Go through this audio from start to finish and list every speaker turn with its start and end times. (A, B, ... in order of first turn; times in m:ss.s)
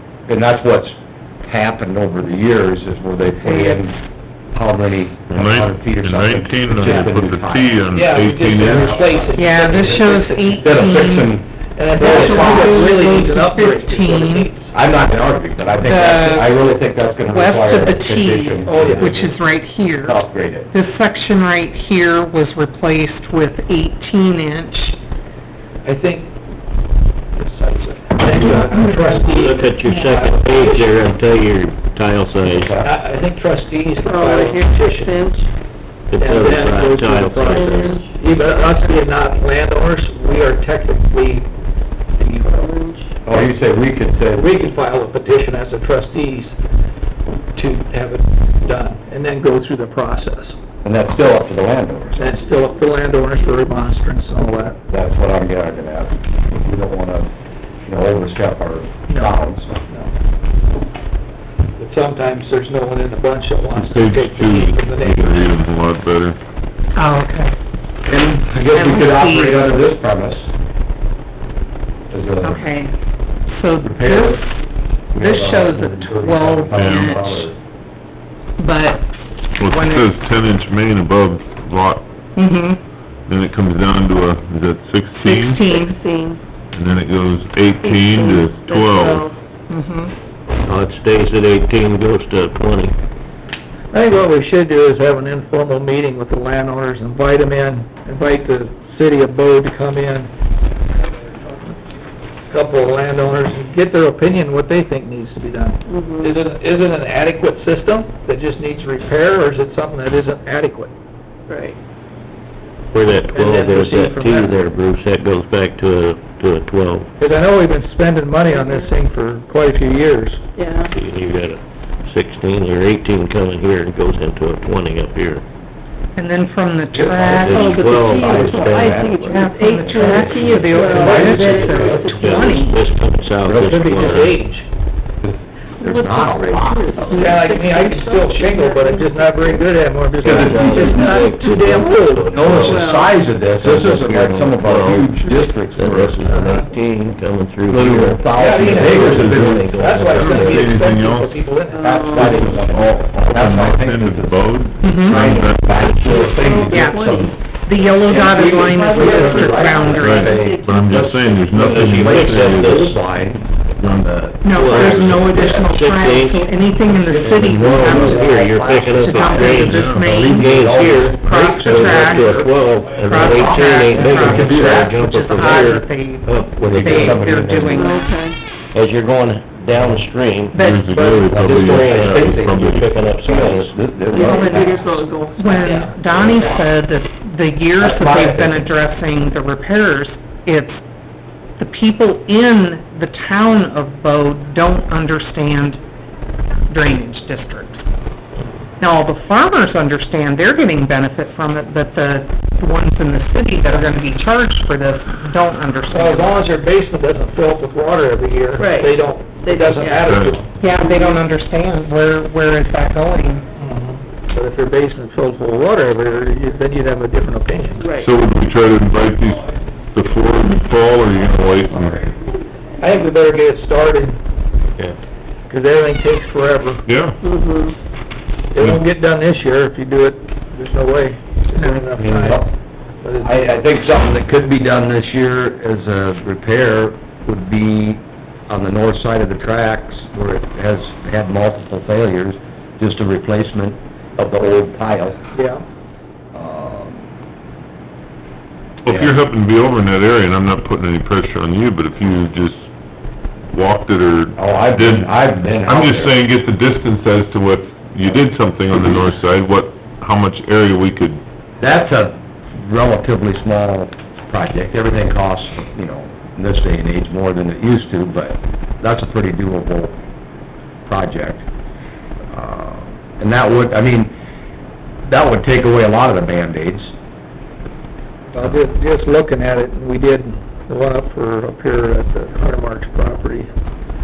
0:00.3-0:04.0 A
0:03.4-0:03.8 B
0:04.5-0:07.8 A
0:05.3-0:09.0 C
0:07.9-0:10.9 D
0:08.6-0:09.4 A
0:09.3-0:11.4 B
0:10.6-0:12.9 A
0:11.8-0:14.7 D
0:12.0-0:14.5 B
0:14.7-0:19.3 A
0:15.8-0:16.6 B
0:17.3-0:25.0 B
0:18.6-0:19.2 D
0:20.0-0:20.7 A
0:25.8-0:26.4 D
0:27.3-0:31.0 D
0:29.1-0:32.7 E
0:32.4-0:33.0 A
0:32.8-0:35.3 D
0:34.0-0:35.5 F
0:36.1-0:38.0 E
0:36.2-0:41.5 D
0:37.4-0:38.2 F
0:42.2-0:42.5 D
0:42.4-0:43.1 F
0:43.2-0:44.5 A
0:44.3-0:46.6 D
0:47.5-0:50.6 D
0:50.8-0:52.4 A
0:52.2-0:54.8 D
0:54.9-0:57.3 A
0:57.8-0:59.7 A
0:59.1-0:59.4 D
0:59.9-1:00.1 D
1:01.8-1:05.6 D
1:03.8-1:06.4 C
1:07.0-1:07.5 B
1:08.1-1:10.5 A
1:08.7-1:09.7 B
1:12.1-1:12.7 A
1:12.4-1:12.9 B
1:13.5-1:14.6 B
1:13.8-1:14.4 A
1:15.1-1:17.5 B
1:15.1-1:17.6 A
1:16.8-1:17.0 C
1:18.6-1:19.0 B
1:19.6-1:22.0 C
1:19.6-1:20.2 B
1:22.4-1:22.8 B
1:23.3-1:25.6 C
1:25.2-1:26.0 B
1:25.7-1:26.4 F
1:26.7-1:29.3 C
1:27.8-1:29.3 F
1:29.7-1:30.1 B
1:30.6-1:33.0 E
1:33.9-1:40.3 D
1:42.5-1:50.9 D
1:45.9-1:46.3 F
1:51.5-1:51.8 F
1:52.9-1:57.1 E
1:53.1-1:54.6 D
1:57.2-2:00.4 D
1:58.5-1:58.9 F
2:00.6-2:00.9 F
2:00.9-2:05.4 E
2:06.2-2:07.7 B
2:06.9-2:12.3 A
2:07.2-2:09.1 E
2:07.5-2:12.8 F
2:09.2-2:12.7 B
2:10.3-2:10.9 E
2:11.6-2:14.4 E
2:13.5-2:14.7 D
2:15.2-2:17.3 A
2:15.8-2:19.7 F
2:17.1-2:22.6 D
2:20.2-2:21.0 A
2:20.2-2:22.9 E
2:20.5-2:21.4 F
2:22.3-2:26.5 A
2:22.6-2:23.1 F
2:23.5-2:30.9 E
2:27.7-2:29.7 A
2:28.3-2:32.4 D
2:29.1-2:29.6 C
2:30.2-2:31.3 C
2:31.7-2:32.6 F
2:31.8-2:34.4 A
2:32.4-2:36.0 C
2:34.8-2:35.2 B
2:35.0-2:37.4 A
2:36.0-2:41.1 F
2:36.7-2:37.0 B
2:37.6-2:40.5 B
2:38.0-2:45.6 A
2:40.0-2:42.9 C
2:41.6-2:43.0 E
2:44.4-2:48.4 B
2:44.6-2:46.5 E
2:46.9-2:52.6 A
2:47.2-2:57.2 E
2:48.9-2:52.3 B
2:53.1-2:55.7 A
2:53.1-2:58.2 B
2:53.4-2:53.9 C
2:56.6-2:57.8 A
2:57.7-2:58.4 F
2:58.7-3:00.6 E
2:59.7-3:00.0 A
3:00.5-3:02.8 B
3:00.6-3:02.6 C
3:00.9-3:04.9 A
3:01.2-3:04.4 E
3:04.1-3:05.8 F
3:04.2-3:04.6 B
3:05.4-3:10.8 B
3:05.6-3:05.9 D
3:06.1-3:06.6 A
3:07.8-3:08.6 A
3:11.6-3:15.8 B
3:16.7-3:17.8 B
3:18.8-3:26.4 B
3:25.9-3:30.6 D
3:28.6-3:30.2 F
3:30.1-3:30.4 C
3:30.5-3:33.5 B
3:30.8-3:31.2 F
3:33.6-3:37.9 D
3:37.8-3:38.1 F
3:38.0-3:42.0 C
3:42.8-3:44.2 D
3:45.5-3:46.8 D
3:46.9-3:47.2 C
3:47.2-3:47.8 F
3:48.5-3:52.5 D
3:51.6-3:51.8 B
3:52.0-3:52.5 A
3:53.0-3:53.5 D
3:53.2-4:05.2 A
4:05.3-4:05.6 D
4:06.3-4:07.0 A
4:08.9-4:09.1 A
4:08.9-4:12.7 C
4:13.5-4:15.1 C
4:14.4-4:16.2 A
4:15.7-4:21.2 C
4:21.6-4:30.0 A
4:30.9-4:31.4 A
4:32.3-4:34.1 A
4:35.0-4:36.9 A
4:38.3-4:43.5 D